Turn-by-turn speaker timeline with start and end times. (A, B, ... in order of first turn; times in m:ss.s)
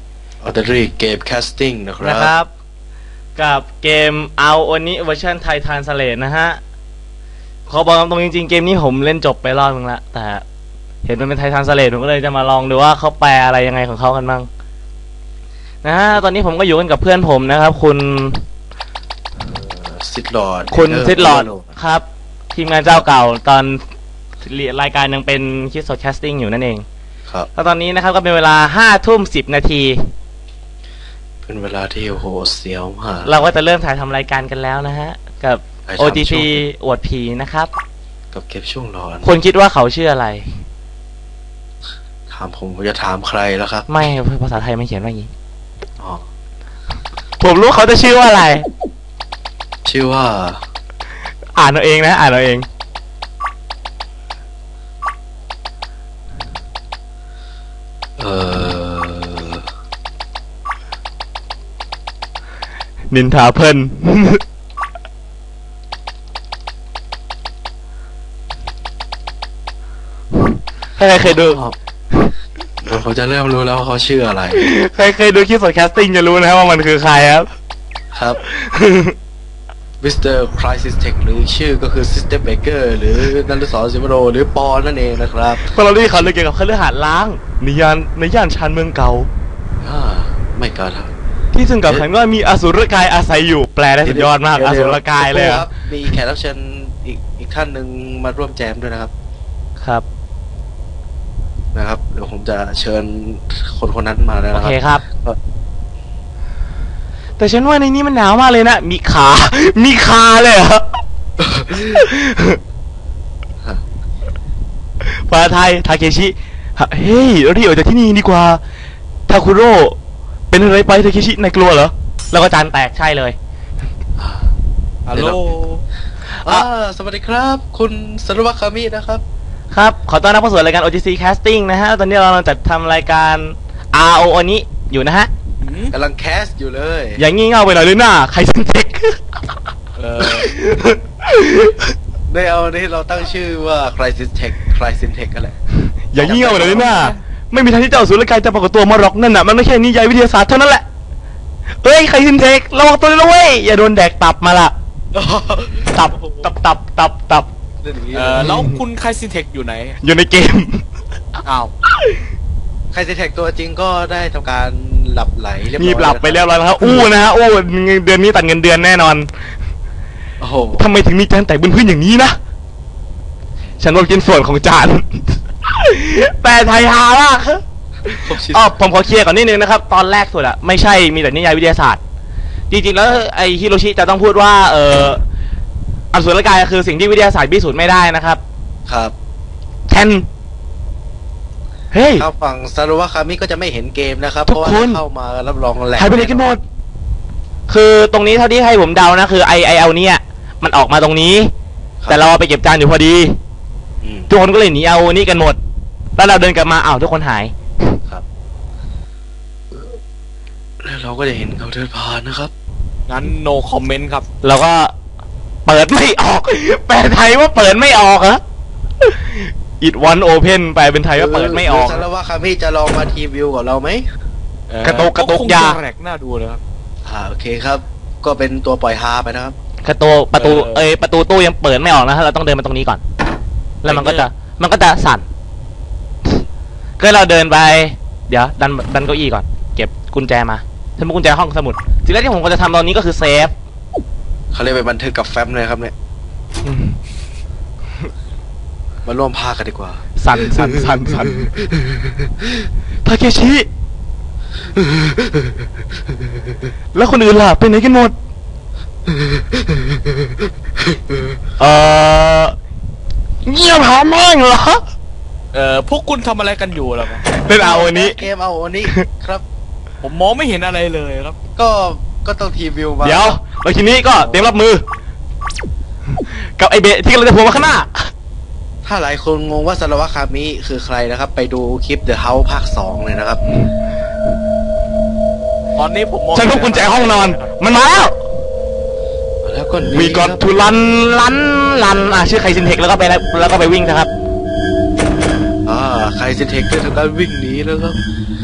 0:00.4-0:02.3 A
0:02.0-0:02.5 B
0:03.4-0:06.6 B
0:07.7-0:10.4 B
0:11.0-0:14.5 B
0:15.8-0:18.4 B
0:19.5-0:21.7 A
0:20.7-0:23.8 B
0:24.4-0:26.8 B
0:27.6-0:30.1 B
0:31.5-0:33.3 A
0:33.2-0:37.7 B
0:35.9-0:36.6 A
0:38.3-0:39.3 A
0:39.2-0:40.5 B
0:42.3-0:43.9 A
0:43.9-0:45.3 B
0:47.4-0:48.7 B
0:49.8-0:50.6 A
0:51.6-0:52.7 B
0:58.2-0:59.7 A
1:03.1-1:04.4 B
1:11.0-1:11.6 B
1:11.2-1:11.8 A
1:12.8-1:14.6 A
1:14.5-1:17.5 B
1:18.1-1:18.4 A
1:18.4-1:19.2 B
1:20.0-1:25.7 A
1:25.6-1:29.3 B
1:29.8-1:31.1 A
1:31.5-1:35.7 B
1:34.0-1:39.1 A
1:39.8-1:40.0 B
1:41.7-1:45.4 A
1:44.5-1:45.0 B
1:47.4-1:51.0 B
1:51.4-1:51.8 A
1:51.7-1:52.6 B
1:55.0-1:58.6 B
1:59.3-2:00.0 B
2:00.5-2:03.4 B
2:04.2-2:04.5 A
2:05.1-2:05.8 C
2:05.1-2:05.5 A
2:06.3-2:06.7 B
2:06.4-2:09.2 A
2:09.7-2:15.3 B
2:15.6-2:15.9 C
2:15.9-2:17.2 A
2:17.2-2:19.2 B
2:20.0-2:20.5 C
2:20.2-2:21.9 B
2:22.3-2:25.5 A
2:26.1-2:30.8 B
2:26.2-2:27.2 A
2:31.8-2:34.7 B
2:35.1-2:36.0 A
2:35.9-2:37.5 B
2:37.8-2:38.6 A
2:38.1-2:40.0 C
2:38.4-2:38.8 B
2:40.0-2:40.8 B
2:41.5-2:41.7 A
2:42.9-2:47.1 A
2:45.8-2:49.3 B
2:50.4-2:50.9 A
2:50.8-2:52.4 B
2:53.8-3:02.0 B
2:58.1-2:58.7 A
3:02.7-3:05.2 B
3:06.1-3:08.4 B
3:08.9-3:09.1 A
3:09.9-3:10.3 B
3:11.9-3:12.3 B
3:12.2-3:16.6 A
3:14.5-3:15.0 B
3:16.0-3:16.6 B
3:17.7-3:21.5 B
3:22.0-3:22.3 A
3:22.1-3:23.4 B
3:24.0-3:24.3 A
3:24.3-3:25.6 B
3:26.2-3:28.0 B
3:30.8-3:32.5 A
3:33.1-3:34.2 C
3:34.4-3:34.9 B
3:35.7-3:38.4 B
3:39.0-3:42.1 B
3:41.1-3:44.1 A
3:44.7-3:46.6 C
3:44.8-3:45.8 B
3:47.0-3:49.6 A
3:49.8-3:53.0 B
3:50.3-3:50.9 C
3:53.8-3:55.3 B
3:53.9-3:54.3 C
3:57.0-4:03.5 B
4:04.5-4:05.9 A
4:06.6-4:07.0 B
4:09.0-4:12.5 A
4:10.2-4:11.5 B
4:13.0-4:13.7 B
4:14.7-4:15.7 A
4:16.9-4:18.2 B
4:19.1-4:21.4 A
4:21.6-4:22.6 B
4:23.4-4:24.8 B
4:25.5-4:27.2 C
4:27.2-4:28.2 B
4:27.5-4:29.4 A
4:30.0-4:31.4 C
4:31.6-4:33.4 A
4:33.0-4:34.8 B
4:34.2-4:34.6 A
4:36.1-4:38.1 B
4:38.8-4:43.4 A
4:45.8-4:47.5 C
4:46.3-4:48.2 B
4:49.4-4:50.5 A
4:49.9-4:54.1 B
4:55.6-4:58.0 A